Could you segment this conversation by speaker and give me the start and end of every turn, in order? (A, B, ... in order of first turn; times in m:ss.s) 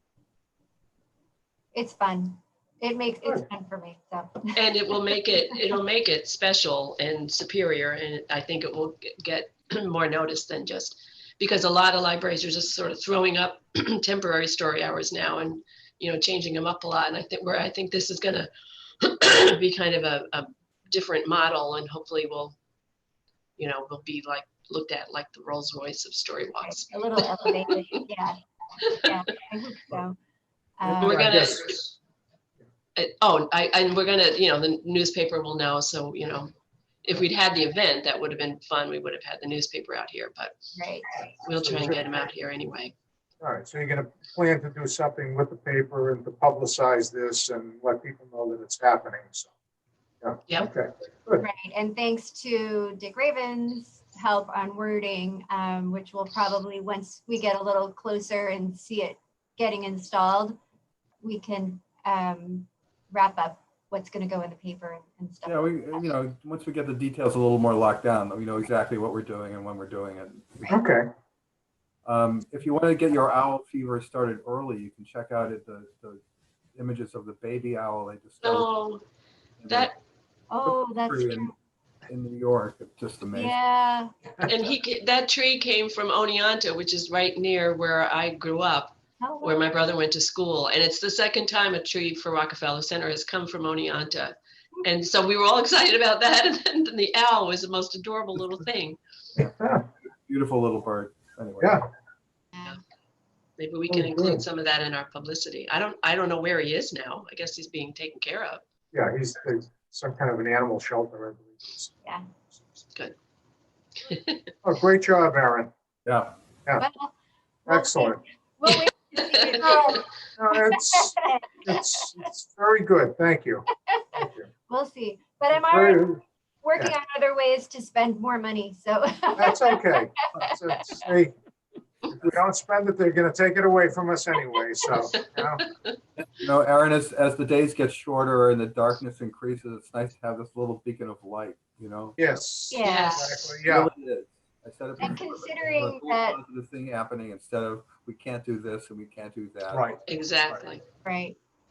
0:01.7-0:04.6 A
0:04.6-0:18.5 B
0:19.0-0:22.6 B
0:23.6-0:27.7 B
0:26.6-0:28.4 A
0:28.8-0:29.1 B
0:28.9-0:30.2 A
0:30.8-0:31.3 A
0:30.8-0:32.0 C
0:31.0-0:31.8 B
0:33.0-0:36.5 B
0:37.0-0:40.5 B
0:40.8-0:41.1 A
0:41.3-0:42.9 B
0:41.6-0:42.0 C
0:43.4-0:49.5 C
0:50.2-0:51.4 C
0:51.4-1:00.6 A
1:01.2-1:06.0 A
1:05.4-1:10.7 D
1:10.7-1:11.0 C
1:12.0-1:16.2 D
1:16.8-1:18.7 D
1:18.4-1:19.0 B
1:19.6-1:20.0 D
1:19.7-1:19.9 B
1:20.5-1:21.5 A
1:20.6-1:21.5 D
1:22.1-1:23.6 D
1:23.3-1:24.1 A
1:24.4-1:39.0 B
1:29.2-1:29.6 A
1:39.4-1:39.8 C
1:39.4-1:41.8 D
1:43.6-1:48.6 B
1:43.9-1:44.4 C
1:48.9-1:51.9 C
1:54.0-1:54.4 B
1:54.6-1:55.7 C
1:56.0-1:56.3 D
1:56.8-1:57.2 A
1:57.7-2:01.7 A
1:57.7-1:58.2 C
1:58.7-2:00.0 B
2:00.4-2:04.5 C
2:03.9-2:10.5 A
2:05.5-2:06.2 C
2:09.4-2:11.3 C
2:12.1-2:15.6 C
2:15.6-2:15.9 B
2:16.2-2:22.2 D
2:22.2-2:23.9 C
2:22.7-2:23.3 A
2:22.8-2:23.4 B
2:23.6-2:30.7 D
2:25.0-2:26.4 A
2:29.7-2:30.0 C
2:30.1-2:30.8 B
2:31.0-2:31.4 A